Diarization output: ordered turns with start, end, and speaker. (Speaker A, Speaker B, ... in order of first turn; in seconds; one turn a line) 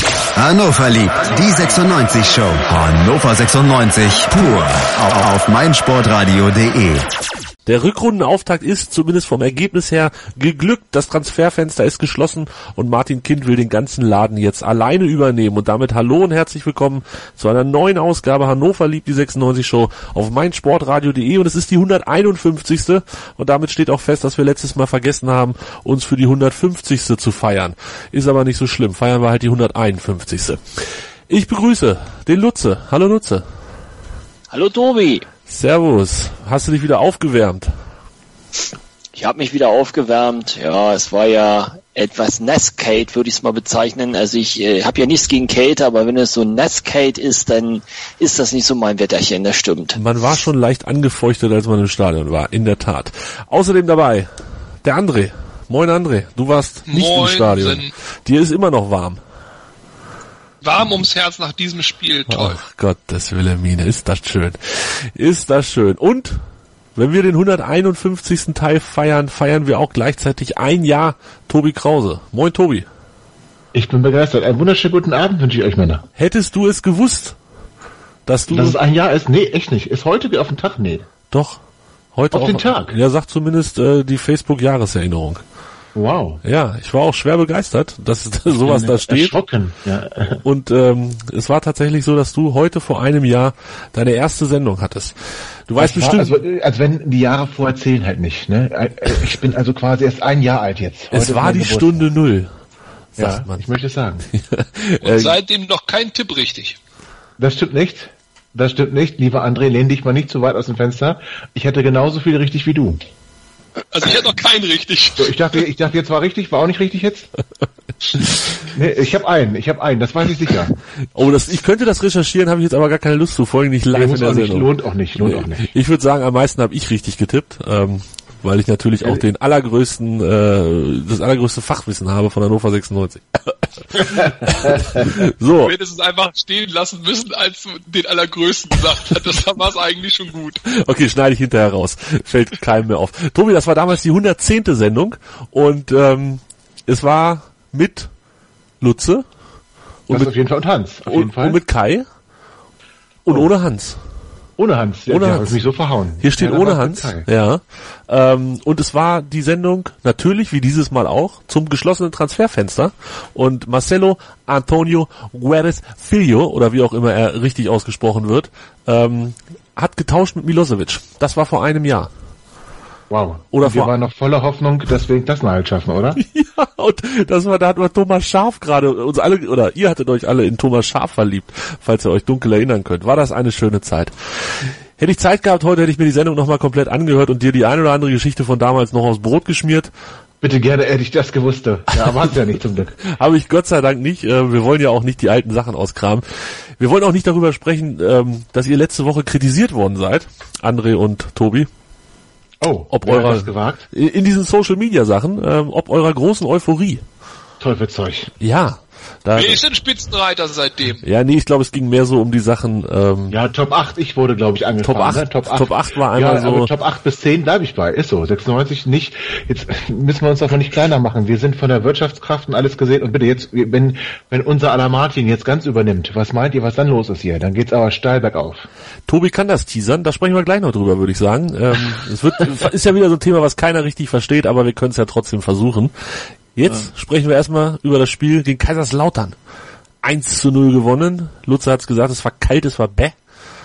Speaker A: 0.3-7.0
Speaker B: 7.7-30.6
Speaker B: 31.3-33.4
Speaker C: 34.5-35.2
Speaker B: 35.5-37.7
Speaker C: 39.1-50.0
Speaker B: 50.0-54.3
Speaker B: 54.8-59.2
Speaker D: 56.9-57.9
Speaker D: 60.6-62.6
Speaker B: 62.3-66.4
Speaker B: 67.0-72.8
Speaker E: 73.7-76.0
Speaker B: 76.2-77.4
Speaker B: 78.2-78.8
Speaker E: 78.5-81.1
Speaker B: 81.3-81.6
Speaker B: 82.1-85.4
Speaker E: 82.3-83.0
Speaker E: 85.9-86.4
Speaker B: 86.4-89.3
Speaker E: 88.6-90.4
Speaker B: 90.4-95.2
Speaker B: 95.7-96.4
Speaker E: 95.8-102.1
Speaker B: 101.1-102.5
Speaker B: 103.1-103.6
Speaker E: 103.2-104.2
Speaker B: 104.3-105.4
Speaker D: 105.0-106.8
Speaker E: 107.4-113.0
Speaker D: 113.9-115.4
Speaker E: 115.2-117.3
Speaker E: 118.7-120.7
Speaker B: 121.1-135.7
Speaker E: 123.9-125.7
Speaker E: 133.9-135.2
Speaker D: 135.6-140.6
Speaker B: 140.7-148.1
Speaker B: 148.8-149.2
Speaker B: 150.1-150.3
Speaker E: 150.1-151.6
Speaker B: 151.1-152.1
Speaker B: 153.2-154.0
Speaker E: 154.6-157.2
Speaker B: 155.1-155.6
Speaker B: 156.2-172.1
Speaker E: 173.1-176.2
Speaker B: 173.5-173.9
Speaker B: 176.2-189.9
Speaker E: 190.4-193.0
Speaker B: 191.9-192.3
Speaker B: 193.0-196.2
Speaker B: 196.8-201.7
Speaker E: 202.6-203.8
Speaker B: 202.9-207.0
Speaker E: 207.6-208.3
Speaker B: 208.4-209.6
Speaker D: 209.3-211.0
Speaker B: 211.0-213.4
Speaker E: 213.3-228.7
Speaker B: 214.8-216.7
Speaker B: 229.1-235.9
Speaker B: 236.5-239.3
Speaker B: 240.0-243.2